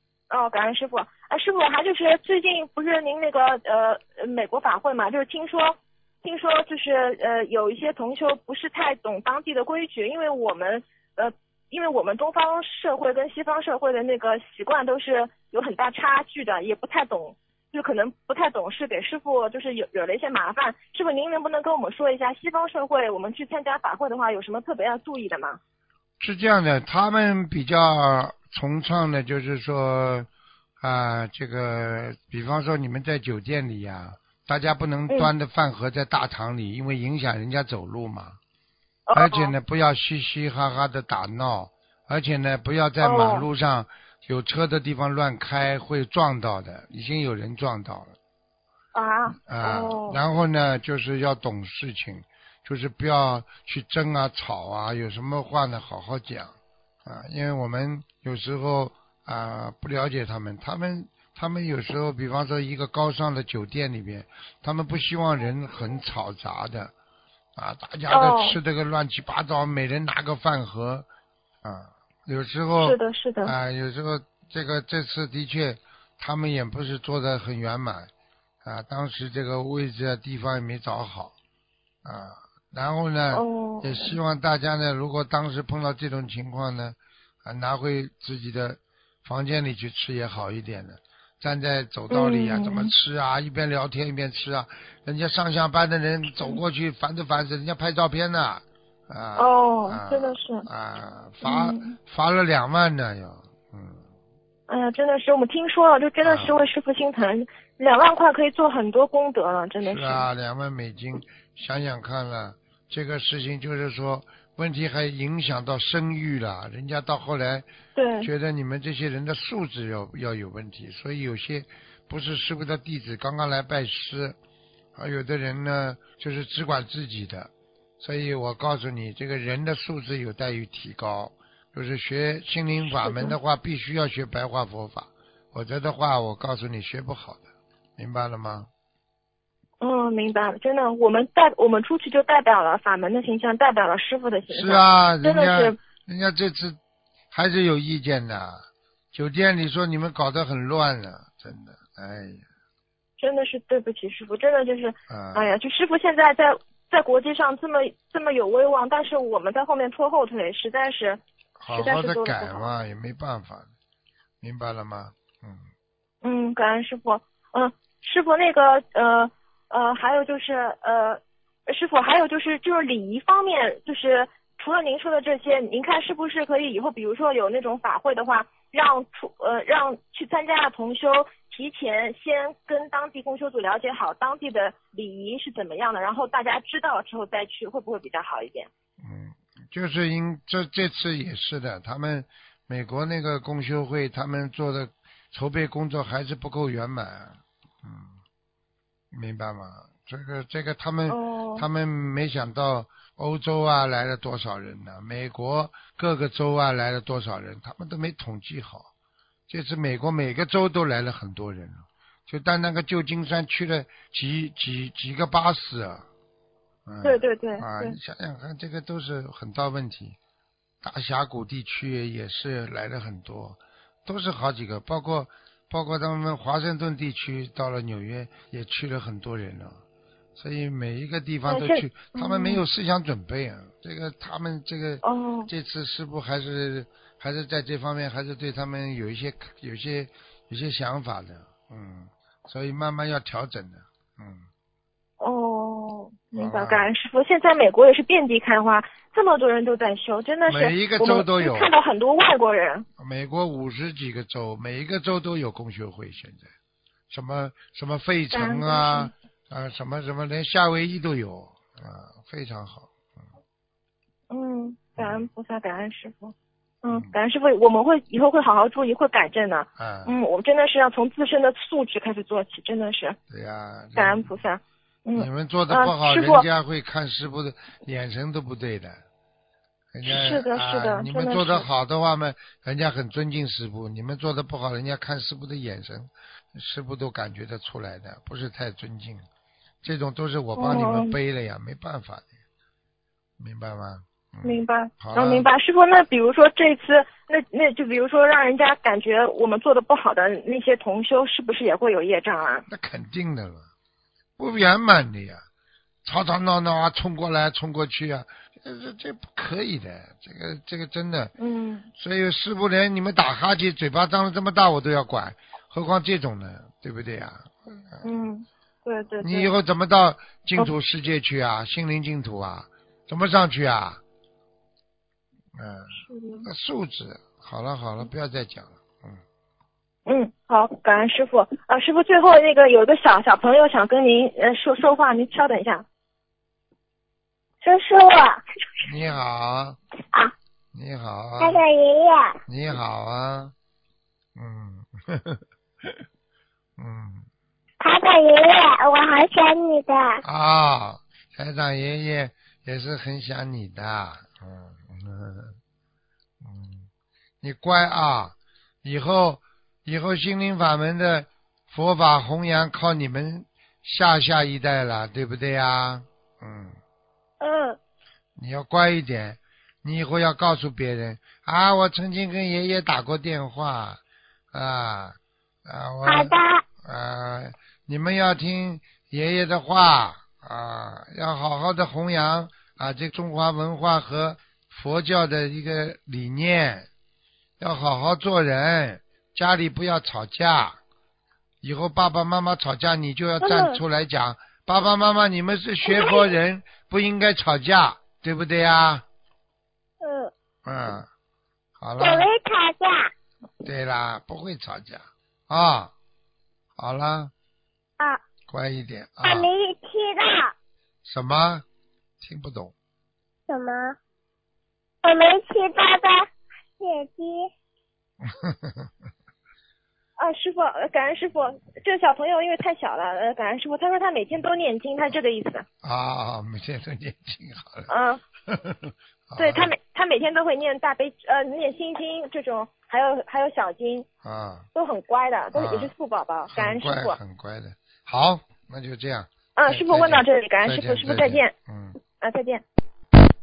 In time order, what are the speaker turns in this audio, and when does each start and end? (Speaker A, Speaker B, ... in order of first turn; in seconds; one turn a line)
Speaker A: 0.3-25.6
Speaker B: 26.2-30.3
Speaker B: 30.8-38.4
Speaker A: 39.1-39.5
Speaker B: 39.1-48.1
Speaker A: 43.0-43.5
Speaker A: 48.9-50.2
Speaker B: 49.4-56.5
Speaker B: 57.0-66.9
Speaker B: 67.5-71.0
Speaker A: 68.1-68.6
Speaker B: 71.6-78.1
Speaker A: 72.8-73.5
Speaker B: 78.6-81.3
Speaker B: 82.0-104.0
Speaker A: 83.3-84.2
Speaker A: 92.1-92.9
Speaker A: 99.3-100.7
Speaker A: 101.4-102.0
Speaker A: 104.7-110.3
Speaker B: 106.2-106.6
Speaker B: 109.8-117.7
Speaker A: 118.0-118.3
Speaker B: 118.2-124.4
Speaker B: 124.9-137.4
Speaker A: 132.9-133.3
Speaker B: 138.0-138.7
Speaker A: 139.8-145.8
Speaker B: 144.5-146.8
Speaker B: 147.3-148.6
Speaker B: 149.1-152.4
Speaker A: 153.2-162.7
Speaker B: 155.1-155.5
Speaker B: 161.6-163.7
Speaker B: 164.4-165.6
Speaker A: 166.2-188.7
Speaker B: 189.0-198.2
Speaker B: 199.1-208.9
Speaker A: 201.1-201.6
Speaker B: 209.5-216.0
Speaker B: 216.8-220.2
Speaker A: 217.0-218.0
Speaker B: 220.8-229.8
Speaker B: 230.4-244.4
Speaker A: 231.5-232.6
Speaker A: 235.0-235.5
Speaker A: 245.2-252.8
Speaker B: 246.3-246.9
Speaker B: 250.5-251.7
Speaker B: 253.0-256.5
Speaker B: 257.1-262.9
Speaker A: 258.3-259.1
Speaker A: 264.3-273.2
Speaker B: 265.0-265.2
Speaker B: 269.8-270.1
Speaker B: 273.3-274.4
Speaker A: 273.9-276.4
Speaker B: 275.1-279.0
Speaker B: 279.9-289.2
Speaker A: 280.1-281.6
Speaker B: 289.8-292.3
Speaker A: 290.6-291.1
Speaker B: 293.4-295.5
Speaker A: 294.4-302.6
Speaker B: 302.7-303.6
Speaker B: 304.4-305.4
Speaker B: 306.0-311.3
Speaker A: 311.4-311.9
Speaker B: 311.9-318.0
Speaker A: 318.0-319.5
Speaker B: 319.2-324.0
Speaker B: 325.5-325.9
Speaker A: 326.1-326.4
Speaker B: 326.4-329.2
Speaker A: 330.1-335.8
Speaker C: 337.6-338.4
Speaker B: 338.8-339.8
Speaker B: 340.7-341.6
Speaker C: 341.4-342.4
Speaker B: 342.5-343.5
Speaker B: 344.4-345.9
Speaker B: 346.8-347.2
Speaker C: 347.8-350.2
Speaker B: 350.2-355.6
Speaker B: 356.4-356.9
Speaker B: 357.4-366.8
Speaker C: 367.4-367.8
Speaker B: 368.4-374.0
Speaker B: 374.5-386.9
Speaker C: 376.1-376.6
Speaker B: 387.6-390.8
Speaker B: 391.6-399.0
Speaker C: 393.4-393.8
Speaker C: 395.9-396.2
Speaker C: 400.0-400.3
Speaker B: 400.6-401.1
Speaker B: 401.8-402.3
Speaker C: 402.0-403.1
Speaker B: 403.6-405.9
Speaker B: 406.8-407.3
Speaker B: 408.5-409.5
Speaker C: 409.2-410.5
Speaker B: 411.0-411.6
Speaker B: 412.2-412.7
Speaker C: 413.5-413.9
Speaker C: 415.0-416.3
Speaker C: 416.8-417.5
Speaker B: 418.2-418.9
Speaker A: 420.2-425.6
Speaker B: 425.8-427.9
Speaker A: 427.9-428.2
Speaker B: 428.5-429.7
Speaker A: 429.4-434.1
Speaker B: 434.2-434.6
Speaker A: 434.7-437.2
Speaker B: 435.5-435.9
Speaker B: 436.5-442.0
Speaker A: 439.6-441.5
Speaker A: 442.2-442.6